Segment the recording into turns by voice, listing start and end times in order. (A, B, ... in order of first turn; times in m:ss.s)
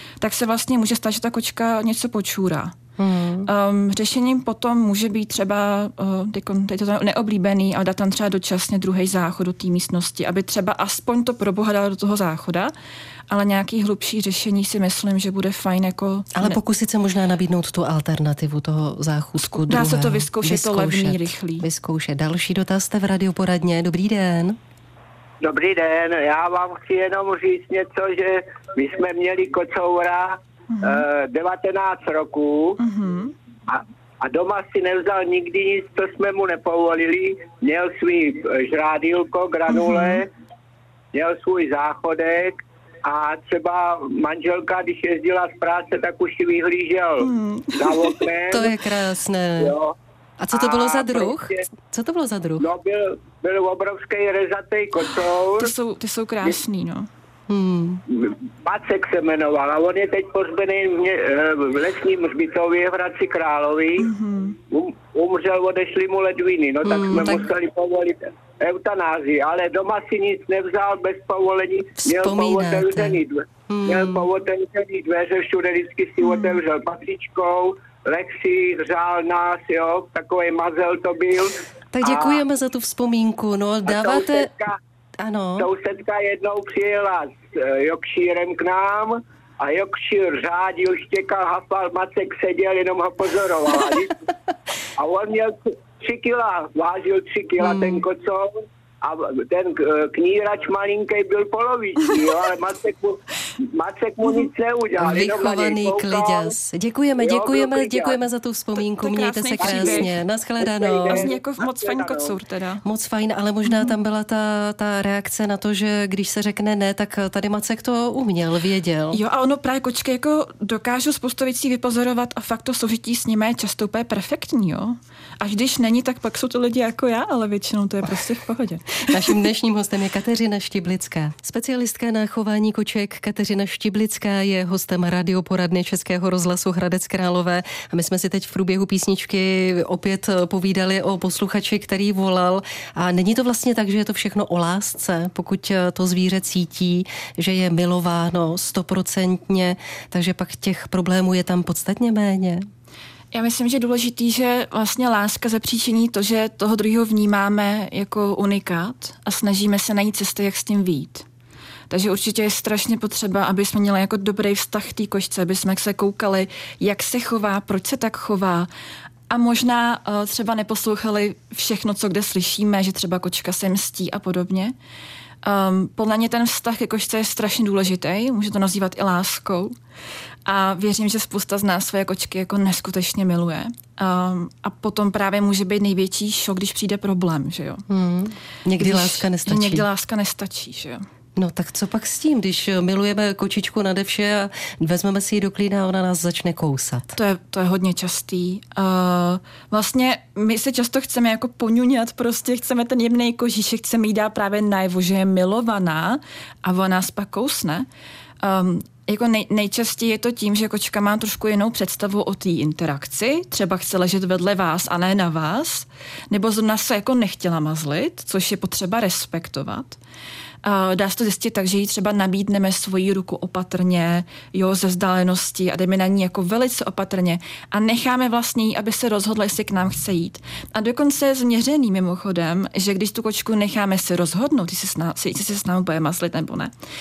0:00.2-0:02.7 A
0:03.0-0:03.5 B
0:03.5-0:12.7 A
0:13.3-0:16.6 A
0:16.4-0:24.6 B
0:19.4-0:21.6 A
0:25.4-0:32.8 C
0:30.7-0:31.0 A
0:32.8-0:33.3 A
0:33.7-0:40.3 C
0:39.7-0:40.2 A
0:41.1-0:48.7 C
0:47.2-0:48.1 A
0:48.5-0:49.7 B
0:49.6-0:49.9 C
0:50.4-0:52.7 B
0:50.5-0:51.6 C
0:52.6-0:55.7 C
0:55.6-0:57.1 A
0:57.5-0:58.0 B
0:58.1-1:04.1 C
1:04.0-1:04.6 A
1:04.7-1:22.4 C
1:06.8-1:07.5 B
1:12.0-1:14.3 B
1:16.2-1:16.6 A
1:21.9-1:24.5 B
1:23.9-1:24.8 C
1:25.2-1:25.7 B
1:25.6-1:34.2 C
1:35.0-1:46.5 C
1:37.6-1:38.0 B
1:45.0-1:51.3 B
1:47.2-1:48.2 C
1:48.8-1:50.1 A
1:49.6-1:50.1 C
1:50.6-1:52.4 C
1:51.1-1:52.8 A
1:52.8-1:59.2 B
1:53.6-1:53.9 A
1:59.1-2:09.4 A
2:09.1-2:32.6 B
2:33.3-2:41.2 A
2:41.9-2:48.7 A
2:49.3-2:54.7 A
2:55.4-2:59.7 A
3:00.4-3:07.8 A
3:07.9-3:09.8 B
3:08.8-3:11.0 A
3:11.4-3:17.1 B
3:17.1-3:27.9 A
3:28.4-3:40.0 A
3:40.6-3:56.7 A